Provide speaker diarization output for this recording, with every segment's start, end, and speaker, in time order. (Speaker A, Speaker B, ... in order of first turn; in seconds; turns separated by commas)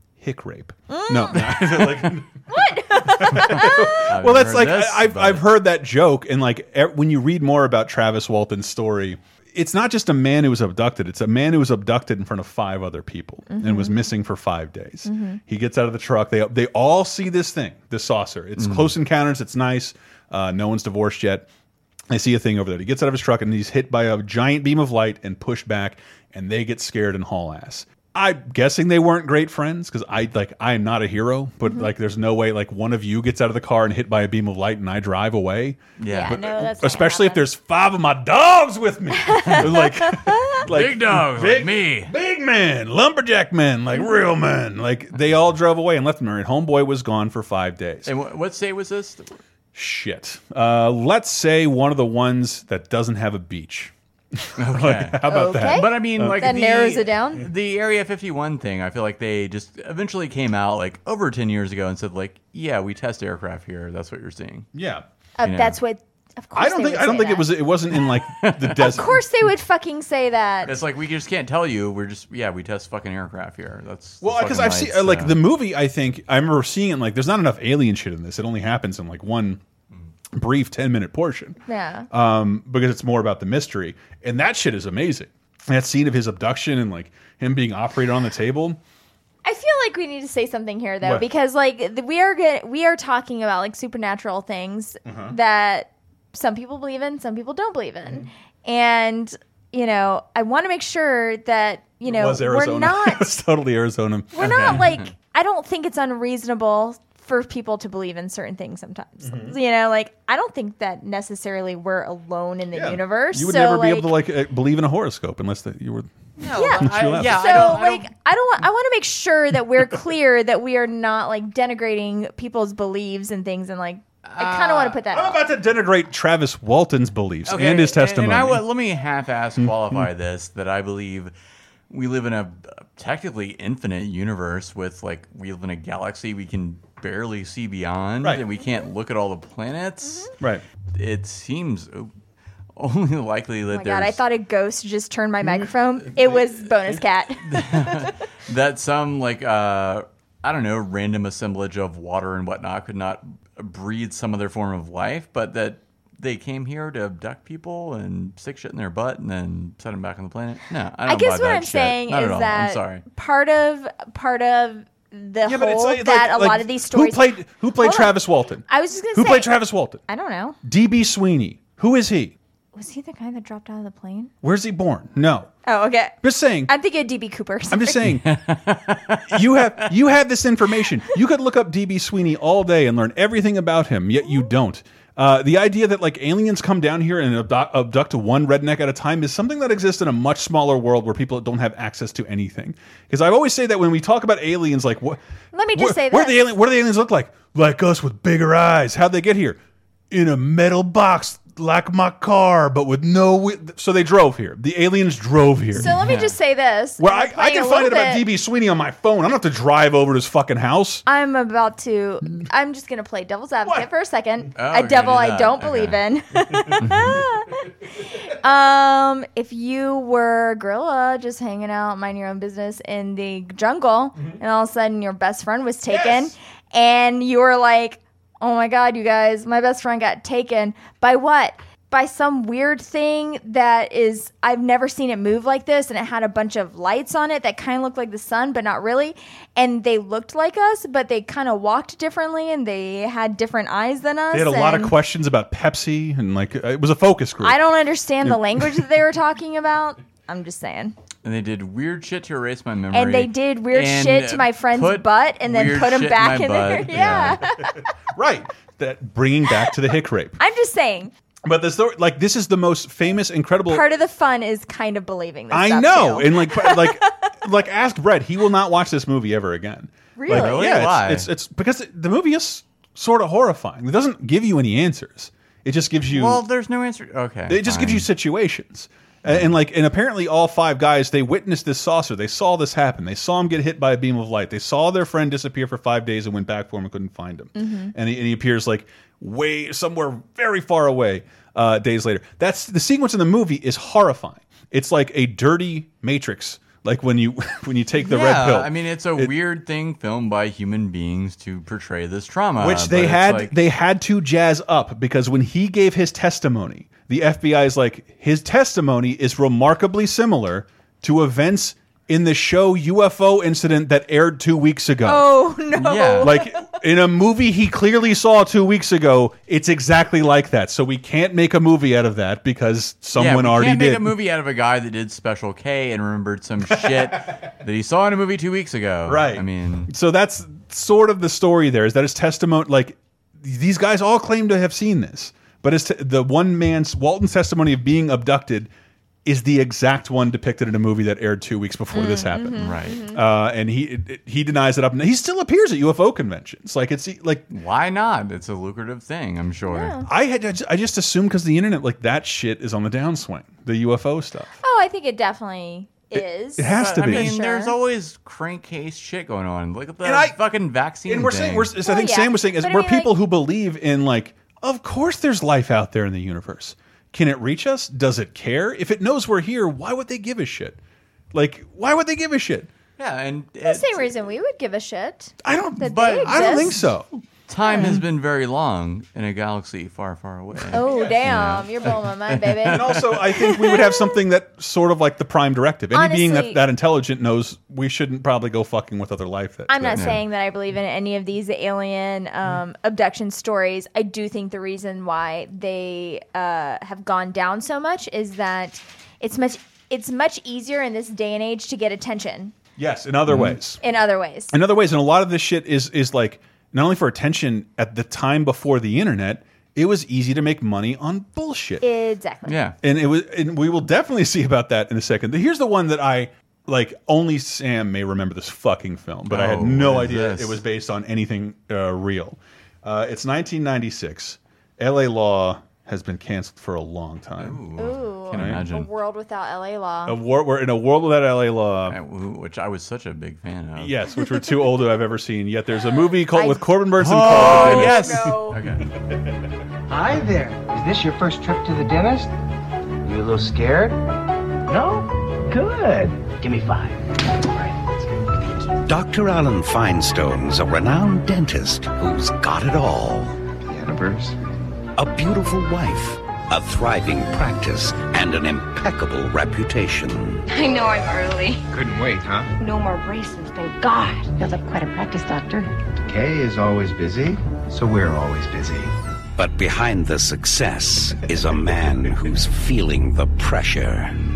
Speaker A: 0.2-2.2, Speaker B: 0.9-1.6, Speaker C: 1.8-2.1, Speaker B: 2.5-4.0, Speaker A: 3.1-21.5, Speaker C: 3.5-5.5, Speaker B: 13.5-14.0, Speaker B: 15.1-15.4, Speaker C: 18.6-18.9, Speaker A: 22.1-48.1, Speaker C: 36.0-36.4, Speaker B: 36.1-37.4, Speaker B: 39.2-40.6, Speaker C: 40.7-42.1, Speaker C: 48.1-49.4, Speaker A: 49.7-56.4, Speaker C: 54.6-64.7, Speaker B: 55.3-57.5, Speaker A: 64.7-65.0, Speaker B: 65.4-67.5, Speaker C: 65.4-65.8, Speaker A: 66.5-69.2, Speaker C: 68.3-69.0, Speaker B: 68.8-70.8, Speaker C: 70.7-75.4, Speaker A: 74.2-79.6, Speaker A: 80.3-81.6, Speaker B: 81.7-82.1, Speaker A: 82.1-88.8, Speaker B: 89.5-103.3, Speaker A: 95.0-95.3, Speaker A: 102.1-104.9, Speaker B: 104.3-114.1, Speaker C: 104.4-105.1, Speaker A: 109.2-109.6, Speaker A: 112.7-116.1, Speaker C: 116.4-118.1, Speaker B: 116.5-125.4, Speaker A: 116.8-117.8, Speaker C: 124.3-125.0, Speaker A: 125.1-128.6, Speaker C: 127.5-131.3, Speaker A: 129.6-130.1, Speaker C: 131.9-140.3, Speaker B: 140.0-140.3, Speaker C: 140.9-142.1, Speaker C: 142.8-144.2, Speaker B: 143.7-148.1, Speaker C: 147.5-163.0, Speaker B: 161.1-168.2, Speaker A: 165.4-170.0, Speaker B: 168.7-169.5, Speaker B: 170.1-170.6, Speaker A: 170.6-172.4, Speaker B: 172.8-174.3, Speaker A: 174.4-175.5, Speaker B: 175.7-176.2, Speaker A: 176.2-176.7, Speaker B: 176.7-178.1, Speaker A: 177.7-178.2, Speaker C: 178.2-179.4, Speaker A: 179.3-195.2, Speaker B: 195.5-196.4, Speaker A: 195.7-199.6, Speaker A: 200.1-205.9, Speaker B: 205.8-208.3, Speaker C: 206.0-206.4, Speaker A: 207.0-211.1, Speaker B: 211.1-244.9, Speaker C: 214.6-216.0, Speaker C: 216.8-217.2, Speaker A: 225.9-226.3, Speaker A: 244.3-247.6, Speaker B: 247.4-251.0, Speaker A: 248.2-248.7, Speaker C: 251.2-257.4, Speaker B: 252.9-257.8, Speaker A: 256.9-257.4, Speaker A: 258.1-260.4, Speaker B: 260.4-261.1, Speaker A: 261.5-263.9, Speaker B: 263.7-267.3, Speaker A: 265.5-276.4, Speaker B: 270.2-270.6, Speaker C: 270.3-271.3, Speaker C: 276.1-278.1, Speaker A: 277.5-299.3, Speaker C: 279.3-279.5, Speaker B: 287.6-287.9, Speaker C: 298.0-303.6, Speaker A: 302.6-315.3, Speaker B: 315.1-316.5, Speaker C: 315.7-316.3, Speaker A: 316.2-324.1, Speaker C: 323.2-329.9, Speaker A: 326.8-327.2, Speaker A: 329.1-338.7, Speaker A: 339.2-347.5, Speaker B: 341.9-343.2, Speaker C: 342.6-343.1, Speaker C: 347.5-350.0, Speaker B: 349.7-350.1, Speaker A: 350.1-354.6, Speaker B: 354.6-357.7, Speaker A: 356.1-357.4, Speaker C: 356.8-361.8, Speaker A: 360.0-360.4, Speaker A: 361.1-370.8, Speaker B: 361.8-363.1, Speaker A: 371.3-372.7, Speaker C: 373.0-374.1, Speaker B: 373.6-376.9, Speaker A: 375.4-377.2, Speaker C: 375.9-376.8, Speaker C: 377.5-383.2, Speaker B: 377.7-378.0, Speaker B: 380.7-384.2, Speaker A: 380.8-381.3, Speaker A: 382.7-390.1, Speaker B: 385.9-386.6, Speaker B: 389.7-402.5, Speaker C: 389.9-390.2, Speaker A: 402.8-403.8, Speaker C: 403.3-403.6, Speaker B: 403.8-404.5, Speaker A: 404.5-411.9, Speaker B: 411.8-412.6, Speaker C: 412.5-412.8, Speaker A: 412.8-427.6, Speaker C: 419.3-420.6, Speaker C: 427.4-428.9, Speaker B: 427.8-430.2, Speaker A: 428.3-428.7, Speaker A: 430.1-432.0, Speaker C: 431.9-433.9, Speaker A: 433.8-438.3, Speaker B: 436.3-438.6, Speaker C: 437.0-438.9, Speaker D: 439.9-442.3, Speaker D: 443.0-444.0, Speaker D: 444.7-448.8, Speaker E: 448.9-453.4, Speaker D: 453.6-454.4, Speaker E: 455.0-460.4, Speaker F: 460.5-461.6, Speaker D: 461.7-462.5, Speaker F: 462.6-465.7, Speaker D: 466.0-468.9, Speaker E: 469.4-474.1